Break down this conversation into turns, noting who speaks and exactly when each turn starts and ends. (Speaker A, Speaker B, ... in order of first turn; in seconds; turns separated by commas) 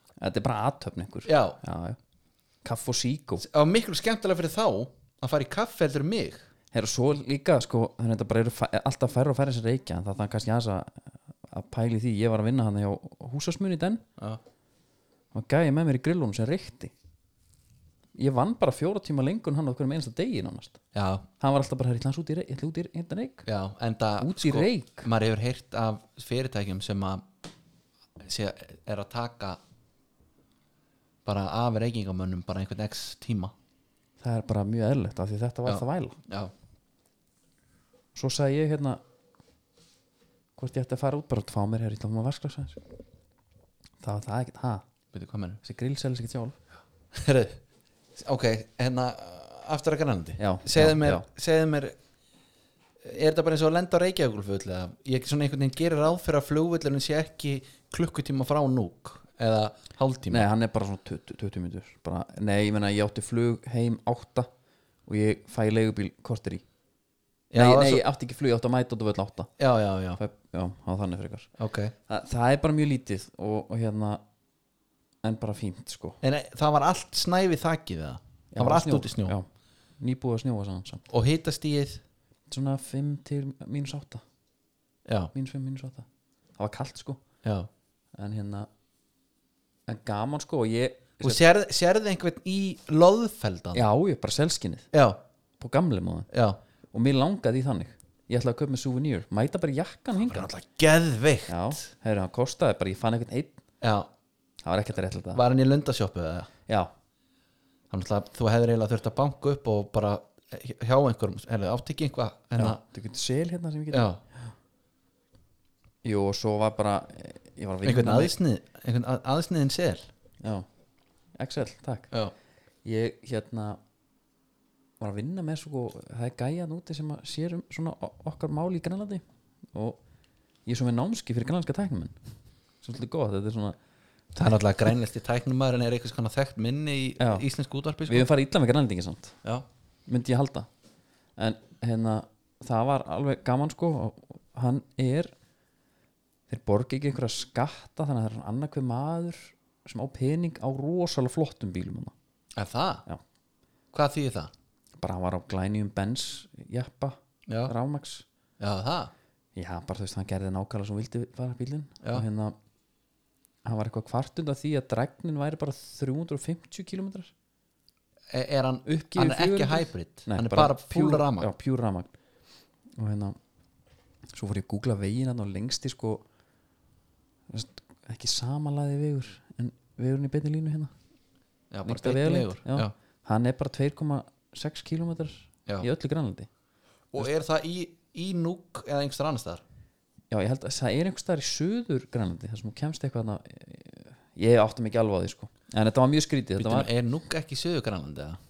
Speaker A: 0.2-2.0, Speaker B: 1.2-1.6, Speaker A: 2.6-3.4, Speaker B: 3.4-6.5, Speaker A: 6.7-14.0, Speaker A: 15.3-16.9, Speaker A: 18.1-20.8, Speaker B: 20.9-21.3, Speaker A: 21.4-23.5, Speaker B: 23.5-27.3, Speaker A: 24.2-25.1, Speaker B: 28.2-29.6, Speaker B: 31.2-33.5, Speaker A: 34.2-36.2, Speaker B: 35.6-36.5, Speaker A: 38.1-39.0, Speaker A: 40.6-42.8, Speaker A: 44.0-44.8, Speaker B: 45.1-45.6, Speaker A: 45.6-46.6, Speaker B: 47.1-47.6, Speaker B: 48.2-52.0, Speaker A: 50.4-51.2, Speaker B: 53.0-60.5, Speaker A: 60.3-64.5, Speaker A: 65.1-66.6, Speaker B: 67.5-68.1, Speaker A: 67.5-69.5, Speaker B: 69.6-70.2, Speaker A: 70.2-71.5, Speaker B: 71.6-71.9, Speaker A: 72.1-74.2, Speaker A: 75.2-76.2, Speaker B: 76.2-79.3, Speaker A: 78.5-79.5, Speaker A: 80.0-81.1, Speaker B: 81.1-82.0, Speaker A: 82.5-84.2, Speaker B: 85.0-85.3, Speaker A: 85.3-86.1, Speaker A: 86.6-87.2, Speaker B: 87.4-87.7, Speaker A: 88.2-88.7, Speaker A: 89.9-91.4, Speaker B: 91.2-93.8, Speaker A: 93.7-94.9, Speaker B: 94.9-95.2, Speaker A: 95.6-96.3, Speaker B: 96.3-96.6, Speaker A: 96.9-100.5, Speaker B: 100.2-101.8, Speaker A: 101.5-103.6, Speaker B: 103.8-104.1, Speaker A: 104.6-105.4, Speaker B: 105.3-106.5, Speaker B: 107.9-112.8, Speaker A: 112.6-114.1, Speaker B: 113.9-114.2, Speaker A: 116.0-118.3, Speaker B: 117.8-120.1, Speaker A: 121.4-122.1, Speaker A: 122.8-123.8, Speaker A: 125.0-130.0, Speaker A: 130.7-132.2, Speaker A: 132.8-133.8, Speaker B: 134.3-138.3, Speaker A: 137.2-137.5, Speaker A: 138.1-139.4, Speaker A: 140.1-140.7, Speaker A: 141.4-145.3, Speaker A: 146.5-152.1, Speaker B: 152.6-153.1, Speaker B: 153.9-154.5, Speaker A: 155.0-158.2, Speaker B: 157.5-157.7, Speaker B: 158.6-159.1, Speaker A: 159.6-162.6, Speaker A: 163.7-167.3, Speaker B: 168.3-171.5, Speaker A: 168.9-172.1, Speaker A: 173.0-173.4, Speaker A: 174.3-176.2, Speaker A: 177.5-180.9, Speaker B: 181.7-182.9, Speaker A: 181.8-186.5, Speaker B: 187.1-189.6, Speaker A: 190.3-196.9, Speaker B: 196.6-198.4